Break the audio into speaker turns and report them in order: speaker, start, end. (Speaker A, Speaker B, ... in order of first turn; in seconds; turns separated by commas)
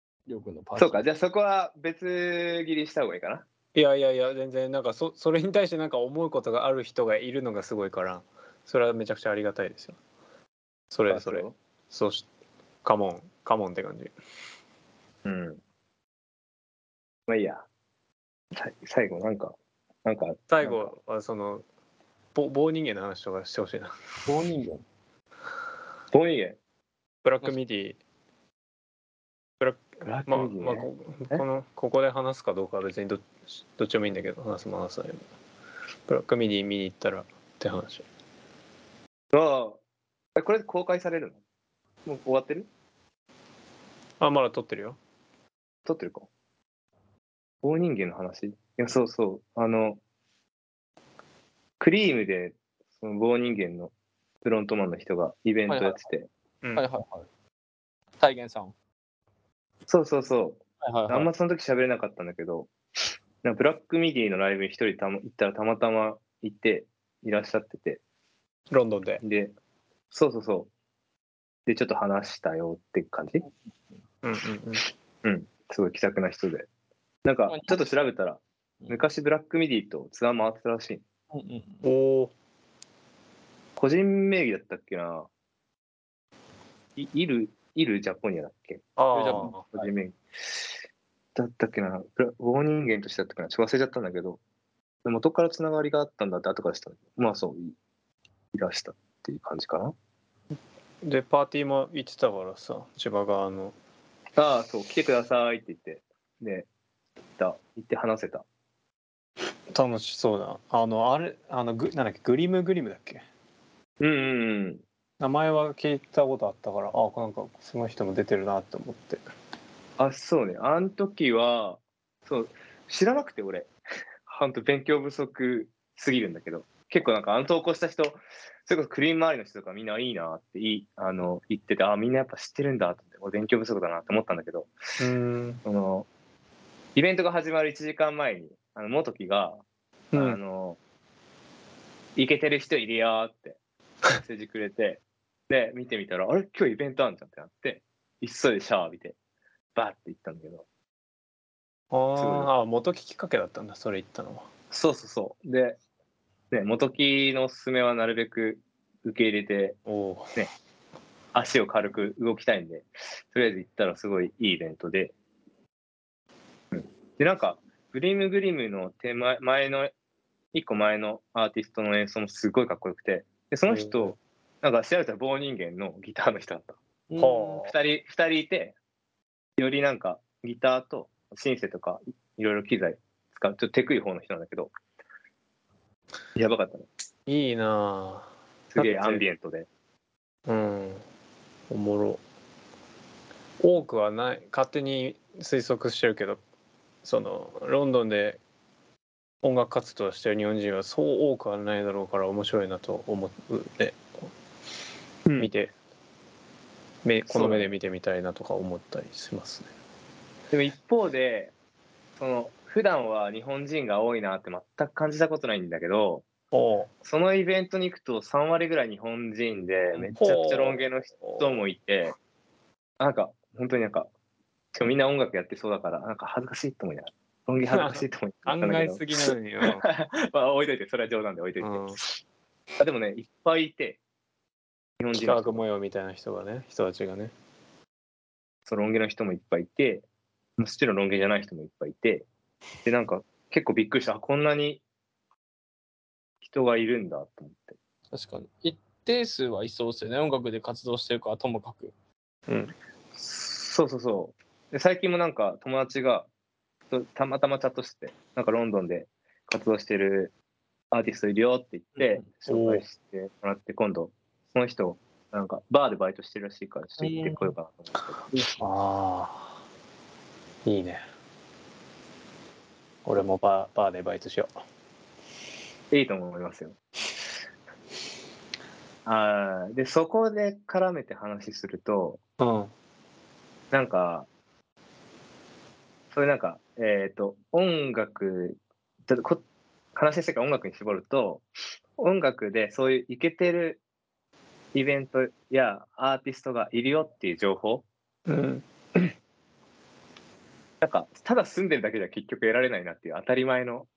Speaker A: 0.3-1.0, Speaker B: 0.8-3.5, Speaker C: 3.7-10.0, Speaker C: 10.9-12.3, Speaker B: 11.1-11.6, Speaker C: 12.8-14.1, Speaker B: 15.2-15.6, Speaker B: 17.3-17.7, Speaker B: 18.5-20.9, Speaker C: 20.5-21.6, Speaker C: 22.3-23.9, Speaker A: 24.3-24.9, Speaker B: 26.1-26.6, Speaker C: 27.2-28.0, Speaker C: 29.6-35.3, Speaker B: 30.0-31.4, Speaker C: 36.1-38.0, Speaker B: 39.3-39.8, Speaker B: 40.4-41.4, Speaker B: 42.0-42.7, Speaker C: 44.2-45.0, Speaker B: 45.9-46.3, Speaker B: 47.6-50.0, Speaker B: 51.8-56.3, Speaker A: 55.7-56.0, Speaker A: 56.8-57.3, Speaker A: 58.2-58.7, Speaker B: 59.9-62.7, Speaker A: 60.8-61.3, Speaker B: 63.4-68.0, Speaker C: 68.7-69.2, Speaker B: 69.2-69.5, Speaker B: 70.1-70.7, Speaker B: 71.7-73.5, Speaker C: 74.2-74.9, Speaker B: 75.2-76.7, Speaker B: 77.2-81.0, Speaker A: 77.5-78.0, Speaker A: 81.3-81.8, Speaker C: 81.8-82.3, Speaker B: 83.8-85.3, Speaker B: 87.0-90.7, Speaker C: 89.0-89.7, Speaker A: 89.1-89.9, Speaker B: 91.3-94.4, Speaker B: 95.0-97.8, Speaker B: 98.5-100.0, Speaker C: 101.0-103.8, Speaker B: 104.4-106.7, Speaker B: 107.4-108.5, Speaker C: 109.7-113.2, Speaker B: 114.0-114.8, Speaker C: 115.2-119.2, Speaker B: 120.0-123.7, Speaker B: 124.3-134.7, Speaker C: 135.0-135.6, Speaker B: 135.7-136.1, Speaker B: 137.0-139.6, Speaker C: 140.1-140.4, Speaker B: 140.2-140.8, Speaker B: 142.2-143.6, Speaker B: 144.2-149.2, Speaker B: 149.8-150.7, Speaker C: 151.9-154.5, Speaker B: 152.2-152.5, Speaker B: 154.7-155.8, Speaker B: 156.5-159.8, Speaker C: 159.9-160.4, Speaker B: 161.3-165.1, Speaker B: 166.7-169.9, Speaker B: 170.5-176.8, Speaker C: 173.7-174.2, Speaker A: 177.1-177.5, Speaker C: 177.2-177.8, Speaker B: 177.6-178.8, Speaker B: 179.6-184.7, Speaker B: 186.4-186.9, Speaker C: 187.3-189.2, Speaker B: 188.7-189.7, Speaker C: 190.5-191.0, Speaker C: 191.7-192.2, Speaker C: 193.6-196.4, Speaker C: 197.0-198.4, Speaker C: 199.4-204.0, Speaker B: 205.2-205.5, Speaker C: 205.4-205.7, Speaker C: 207.1-209.7, Speaker B: 207.3-207.7, Speaker B: 210.5-211.5, Speaker B: 212.2-216.3, Speaker C: 216.5-216.9, Speaker B: 217.0-222.2, Speaker C: 220.2-221.6, Speaker B: 223.0-224.1, Speaker B: 224.7-232.2, Speaker C: 227.7-229.9, Speaker C: 231.6-232.0, Speaker B: 232.8-234.0, Speaker B: 235.0-235.6, Speaker C: 235.1-237.3, Speaker B: 238.7-240.1, Speaker B: 240.6-242.3, Speaker B: 242.8-244.8, Speaker B: 246.4-247.8, Speaker A: 248.1-251.9, Speaker C: 252.5-252.7, Speaker B: 253.2-256.3, Speaker B: 256.9-260.3, Speaker B: 260.9-268.3, Speaker A: 262.0-262.3, Speaker C: 262.5-262.8, Speaker A: 267.0-267.5, Speaker A: 268.3-268.6, Speaker C: 268.6-269.6, Speaker C: 270.6-271.0, Speaker C: 273.1-274.5, Speaker B: 275.9-276.8, Speaker B: 279.1-282.2, Speaker C: 282.4-282.7, Speaker B: 283.7-284.3, Speaker B: 286.1-289.4, Speaker B: 289.9-293.8, Speaker B: 294.7-297.9, Speaker C: 298.3-299.1, Speaker B: 300.8-303.9